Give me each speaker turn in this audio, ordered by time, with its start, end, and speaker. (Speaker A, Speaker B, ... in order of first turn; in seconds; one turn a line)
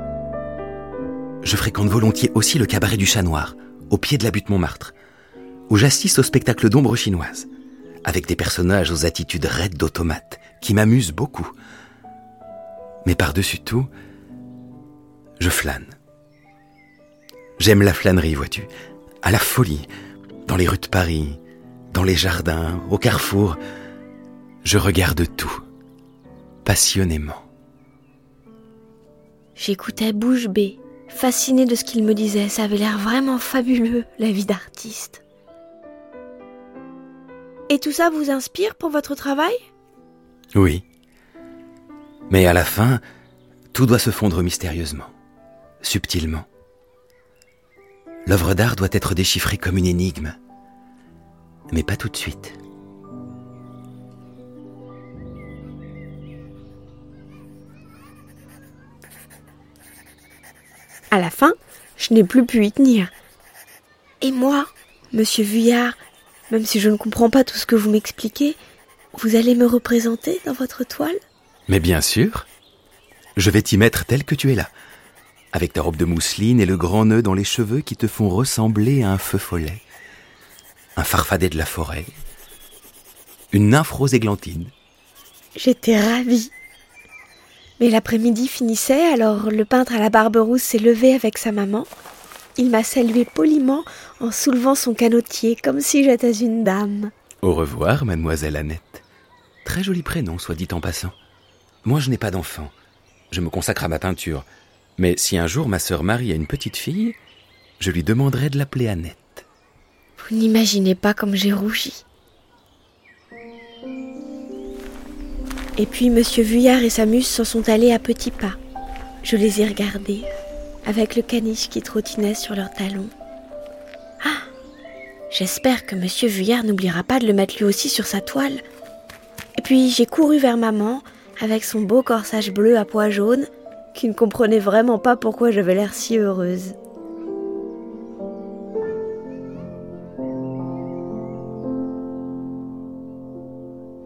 Speaker A: 1.4-4.9
Speaker A: 5.7-7.5
Speaker A: 8.0-11.5
Speaker A: 13.0-13.9
Speaker A: 15.4-15.9
Speaker A: 17.6-18.7
Speaker A: 19.2-19.9
Speaker A: 20.4-21.4
Speaker A: 21.9-23.6
Speaker A: 24.6-25.6
Speaker A: 26.6-27.4
Speaker B: 29.6-35.2
Speaker B: 37.7-39.6
Speaker A: 40.5-40.8
Speaker A: 42.3-43.0
Speaker A: 43.7-45.1
Speaker A: 45.8-46.5
Speaker A: 48.2-50.4
Speaker A: 51.7-52.6
Speaker B: 61.1-63.1
Speaker B: 64.2-66.0
Speaker B: 66.5-68.6
Speaker B: 69.1-71.2
Speaker A: 71.7-72.5
Speaker A: 73.3-74.7
Speaker A: 75.5-79.8
Speaker A: 81.0-82.1
Speaker A: 83.5-84.7
Speaker B: 85.5-86.5
Speaker B: 87.8-91.9
Speaker B: 92.6-97.1
Speaker A: 97.4-99.0
Speaker A: 99.6-101.1
Speaker A: 101.8-102.7
Speaker A: 103.3-104.5
Speaker A: 105.0-107.2
Speaker A: 107.8-109.5
Speaker B: 110.2-112.0
Speaker B: 115.8-118.6
Speaker B: 119.2-120.3
Speaker B: 120.8-123.1
Speaker B: 124.2-124.5
Speaker B: 125.3-128.6
Speaker B: 129.6-136.8